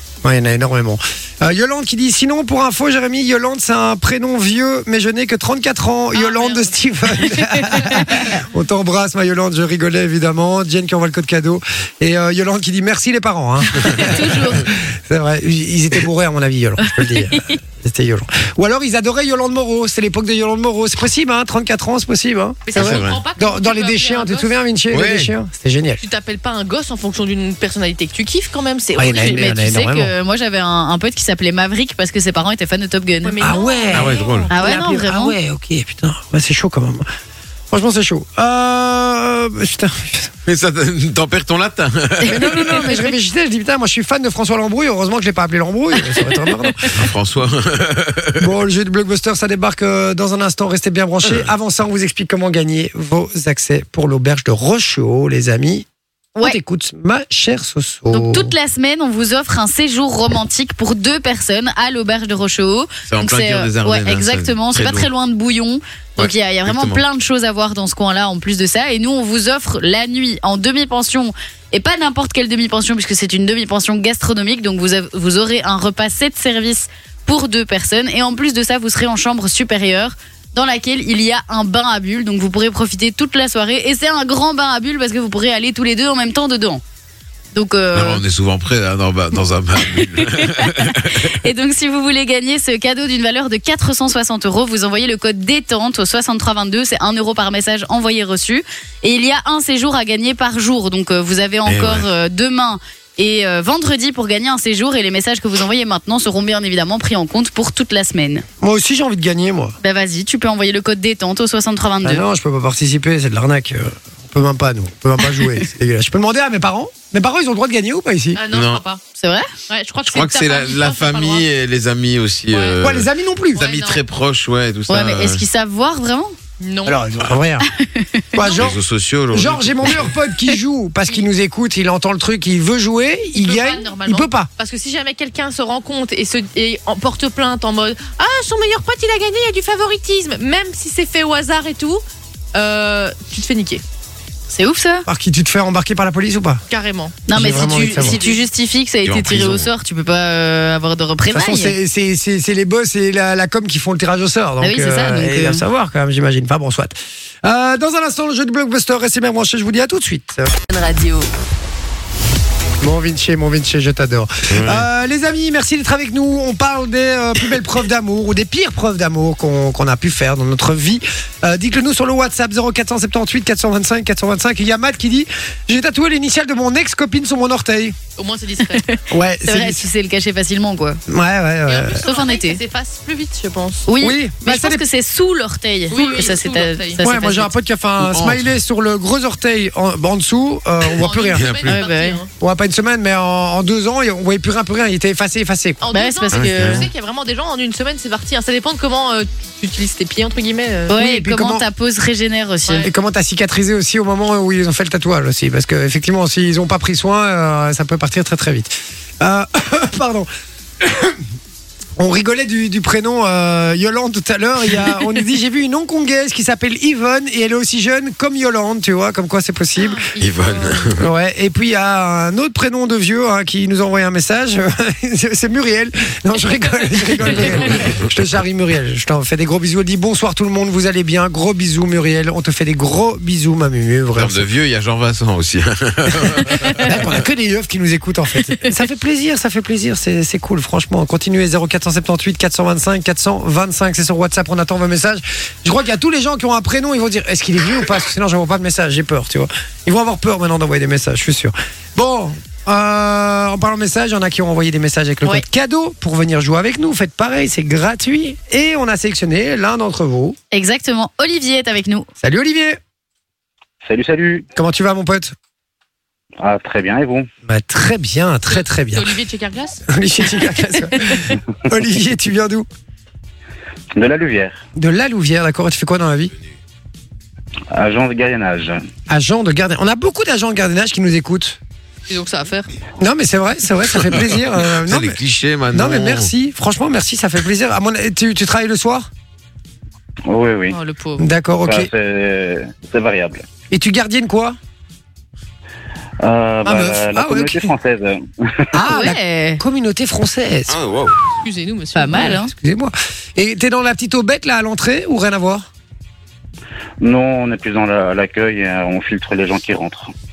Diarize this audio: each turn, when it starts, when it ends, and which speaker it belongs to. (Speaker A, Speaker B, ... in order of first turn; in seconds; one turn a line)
Speaker A: 0.2-26.0
Speaker B: 6.1-6.7
Speaker C: 7.3-8.1
Speaker C: 13.8-14.7
Speaker C: 17.1-17.6
Speaker B: 22.6-24.5
Speaker D: 22.8-23.2
Speaker D: 24.9-25.3
Speaker B: 26.0-29.5
Speaker A: 28.9-30.1
Speaker C: 29.1-33.3
Speaker B: 33.2-34.5
Speaker A: 33.4-37.0
Speaker D: 33.9-34.5
Speaker C: 34.5-35.4
Speaker A: 37.7-40.3
Speaker D: 40.5-42.6
Speaker C: 42.2-43.0
Speaker A: 42.2-46.9
Speaker C: 46.0-46.9
Speaker D: 46.9-48.4
Speaker A: 48.4-55.9
Speaker A: 56.4-58.5
Speaker C: 58.1-86.8
Speaker D: 63.1-65.1
Speaker D: 66.2-67.0
Speaker C: 87.5-88.2
Speaker D: 87.9-91.4
Speaker C: 90.2-108.4
Speaker D: 101.7-102.0
Speaker A: 108.6-109.7
Speaker C: 109.8-112.2
Speaker A: 112.0-118.4
Speaker B: 118.3-119.0
Speaker D: 118.5-118.8
Speaker C: 119.2-119.5
Speaker B: 119.7-121.5
Speaker D: 120.0-125.4
Speaker B: 122.5-122.8
Speaker A: 122.8-123.6
Speaker B: 123.5-124.0
Speaker C: 124.9-126.3
Speaker B: 126.6-127.0
Speaker A: 126.8-127.7
Speaker C: 127.7-128.4
Speaker A: 128.3-128.8
Speaker B: 128.4-128.6
Speaker D: 128.5-130.1
Speaker A: 129.3-134.5
Speaker B: 133.3-142.0
Speaker B: 142.5-143.8
Speaker C: 144.5-145.1
Speaker A: 145.1-146.6
Speaker B: 146.7-148.4
Speaker C: 147.3-151.8
Speaker A: 147.3-148.2
Speaker D: 149.0-149.7
Speaker A: 151.3-160.5
Speaker C: 154.6-155.6
Speaker B: 160.7-161.2
Speaker A: 162.8-178.0
Speaker D: 164.5-164.8
Speaker B: 178.2-178.8
Speaker C: 178.7-181.0
Speaker A: 179.1-179.8
Speaker A: 181.1-182.0
Speaker B: 181.7-183.9
Speaker C: 182.0-182.6
Speaker C: 183.9-187.5
Speaker A: 184.0-184.8
Speaker B: 185.9-187.1
Speaker A: 187.0-191.5
Speaker D: 188.0-188.5
Speaker B: 190.9-192.3
Speaker D: 191.3-191.8
Speaker C: 191.7-192.2
Speaker A: 192.4-195.8
Speaker B: 195.8-200.9
Speaker C: 195.9-196.9
Speaker D: 196.3-196.9
Speaker A: 200.9-201.6
Speaker C: 200.9-202.9
Speaker A: 202.8-210.3
Speaker A: 210.8-211.2
Speaker A: 212.0-220.0
Speaker B: 219.8-220.9
Speaker D: 220.2-221.1
Speaker A: 221.0-234.5
Speaker D: 227.4-228.1
Speaker D: 234.2-237.0
Speaker A: 236.8-260.4
Speaker C: 260.5-262.1
Speaker A: 262.2-262.8
Speaker E: 263.8-264.5
Speaker A: 264.6-265.3
Speaker E: 266.4-267.3
Speaker A: 267.4-269.2
Speaker B: 268.5-269.8
Speaker A: 269.9-272.7
Speaker E: 273.9-274.6
Speaker A: 274.7-276.3
Speaker E: 277.7-278.8
Speaker A: 279.1-281.6
Speaker B: 282.1-282.7
Speaker A: 283.0-289.1
Speaker D: 284.1-286.3
Speaker E: 290.3-290.8
Speaker B: 290.7-291.3
Speaker A: 291.2-291.9
Speaker E: 291.6-293.4
Speaker A: 293.7-294.6
Speaker E: 296.2-298.6
Speaker A: 296.6-297.7
Speaker A: 298.7-300.8
Speaker C: 298.8-299.6
Speaker D: 300.7-301.2
Speaker B: 301.4-302.4
Speaker C: 301.9-302.5
Speaker A: 302.1-305.6
Speaker E: 307.0-310.1